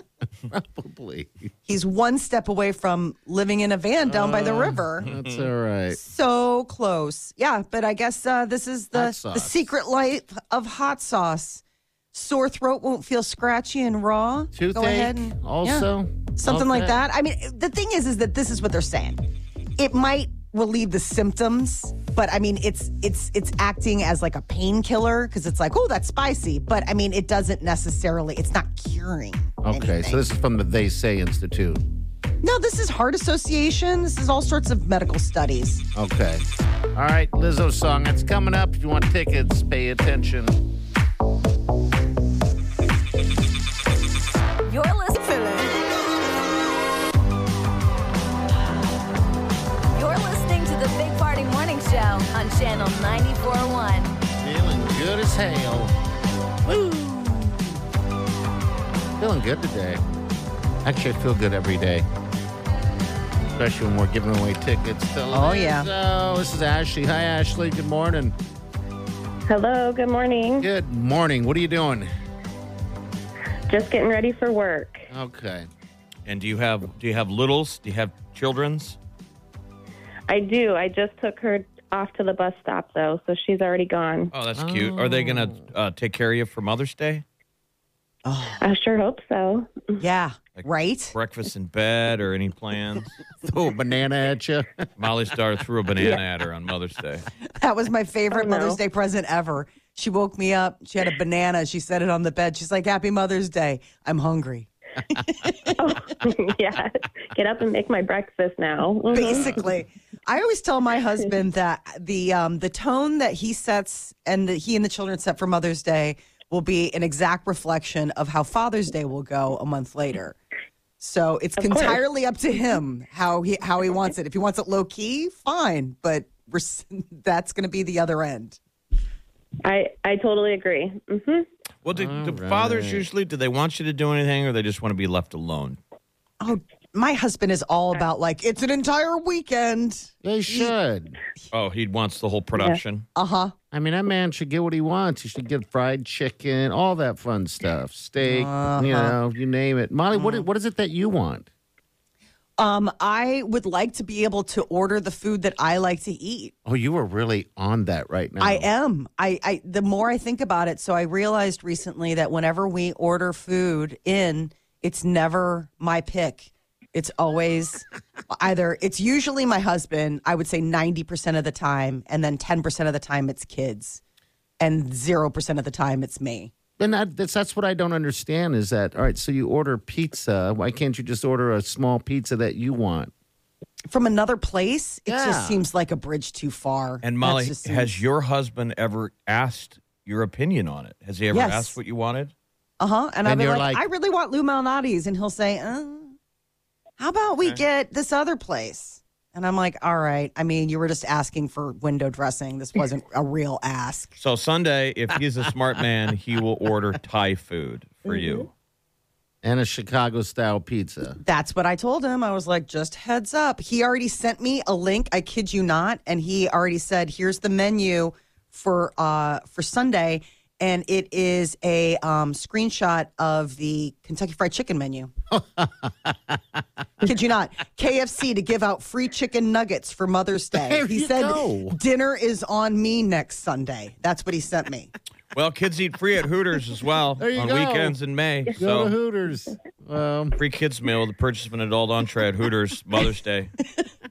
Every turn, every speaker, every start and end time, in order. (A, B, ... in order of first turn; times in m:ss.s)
0:00.5-0:01.5 A
0:01.7-0:05.1 B
0:04.0-0:06.0 A
0:05.0-0:05.5 C
0:05.9-0:11.6 B
0:08.9-0:09.7 A
0:12.1-0:19.2 B
0:14.5-0:17.0 A
0:19.8-0:30.2 B
0:29.6-0:31.8 A
0:32.4-0:35.8 B
0:35.9-0:40.6 A
0:44.6-0:45.5 D
0:49.9-0:54.2 D
0:54.4-0:55.9 A
0:56.6-0:57.6 A
0:59.2-1:00.0 A
1:00.8-1:02.1 A
1:03.5-1:08.3 A
1:05.3-1:05.9 B
1:09.5-1:10.7 E
1:10.6-1:12.1 A
1:13.7-1:15.0 E
1:15.1-1:15.7 A
1:16.3-1:19.0 C
1:20.3-1:24.3 E
1:24.3-1:27.2 C
1:24.5-1:25.6 A
1:28.2-1:28.7 B
1:28.6-1:30.0 E
1:30.0-1:31.1 B
1:30.6-1:33.1 C
1:33.4-1:34.8 A
1:35.0-1:37.3 C
1:37.5-1:45.7 B
1:38.3-1:38.8 E
1:45.1-1:45.5 A
1:45.7-1:49.6 E
1:49.1-2:00.4 B
2:01.0-2:08.6 B
2:01.6-2:02.0 E
2:09.6-2:11.5 E
2:11.8-2:15.8 C
2:11.9-2:13.1 A
2:16.4-2:20.7 B
2:20.2-2:21.2 A
2:21.5-2:23.0 C
2:23.2-2:23.5 B
2:23.7-2:31.5 A
2:28.2-2:29.2 B
2:30.1-2:30.4 B
2:32.6-2:36.5 B
2:36.6-2:38.7 A
2:38.4-2:54.0 B
2:54.6-2:56.5 B
2:56.8-3:03.1 A
3:03.9-3:08.0 B
3:05.1-3:05.6 A
3:07.0-3:12.3 C
3:11.3-3:11.8 B
3:12.8-3:16.2 B
3:13.2-3:13.8 A
3:17.0-3:24.1 B
3:24.2-3:28.5 C
3:29.4-3:31.2 A
3:31.2-3:45.1 B
3:45.3-3:47.1 A
3:47.0-3:54.9 B
3:50.5-3:51.8 A
3:55.3-3:58.9 C
3:57.2-3:58.0 A
3:58.5-4:00.4 A
4:00.4-4:03.5 C